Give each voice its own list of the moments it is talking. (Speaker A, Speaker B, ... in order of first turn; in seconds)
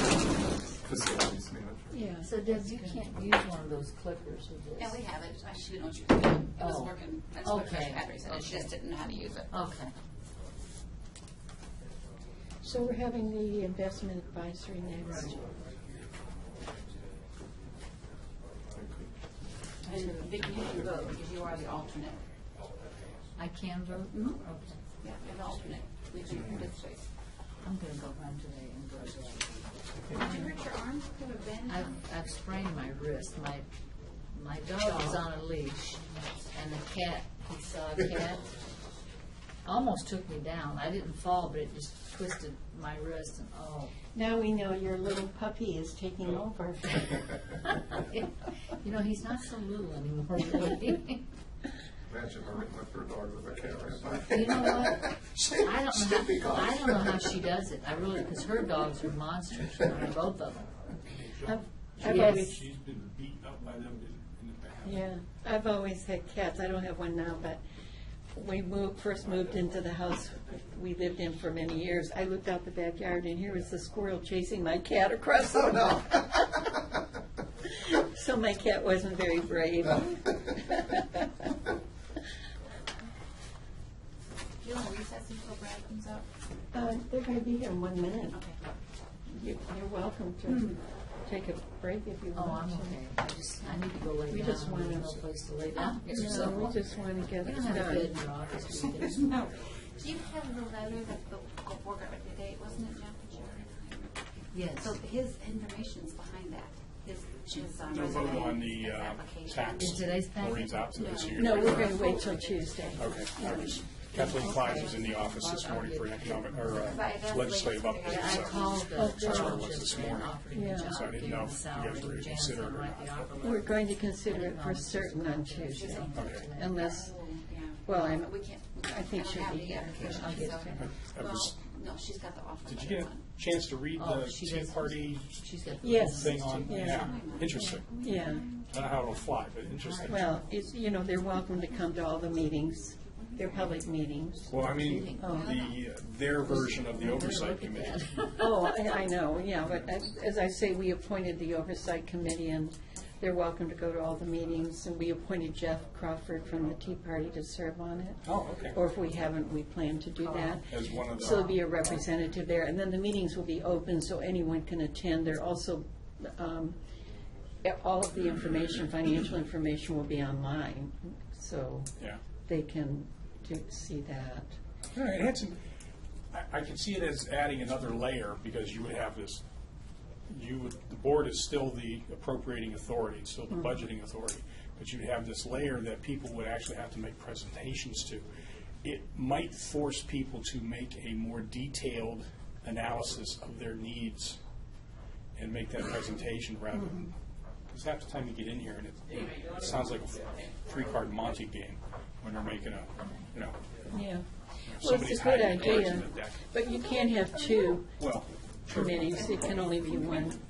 Speaker A: 0.8-1.8, 18.7-19.1, 52.1-57.2
Speaker B: 1.9-2.3, 12.6-15.5, 19.9-20.2, 44.1-47.4, 61.5-62.6, 64.8-67.6, 68.3-76.7, 77.7-81.5, 86.7-88.4, 89.3-93.0, 94.3-98.1, 111.4-114.4, 118.9-119.7, 120.5-121.0, 123.4-127.1, 127.8-130.8, 135.8-137.2, 138.0-138.5, 140.0-145.6, 148.4-158.2, 158.7-166.8, 167.6-171.9, 172.4-174.5, 196.7-197.1, 203.9-204.2, 204.8-207.9, 208.7-210.4
Speaker C: 2.2-5.0, 6.6-8.7, 9.5-9.9, 23.4-24.8, 27.6-29.6, 30.2-30.4, 31.7-33.7, 34.3-38.5, 39.6-43.9, 48.8-51.2, 54.3-60.7, 62.0-62.5, 92.3-96.8, 97.4-99.4, 104.5-105.0, 109.8-111.0, 114.2-117.0, 118.0-126.8, 130.1-130.8, 133.9-137.1, 139.8-140.3, 144.7-145.4, 146.6-148.7, 160.2-160.6
Speaker D: 4.8-9.5, 19.9-22.2, 25.0-27.0, 30.1-31.9, 84.6-86.3, 88.3-88.6, 95.8-96.5, 98.8-104.1, 104.8-110.0, 110.9-113.2, 116.8-118.9, 125.8-133.2, 136.5-138.6
Speaker E: 61.1-65.1, 107.5-112.0, 113.0-123.1, 126.1-126.4, 130.0-131.6, 132.7-138.0, 138.7-140.4, 144.5-148.0, 158.2-158.8, 160.7-161.7, 174.9-175.6, 176.3-179.4, 180.3-188.2, 188.8-194.4, 195.4-197.1, 197.7-203.6, 204.7-206.4, 208.0-209.0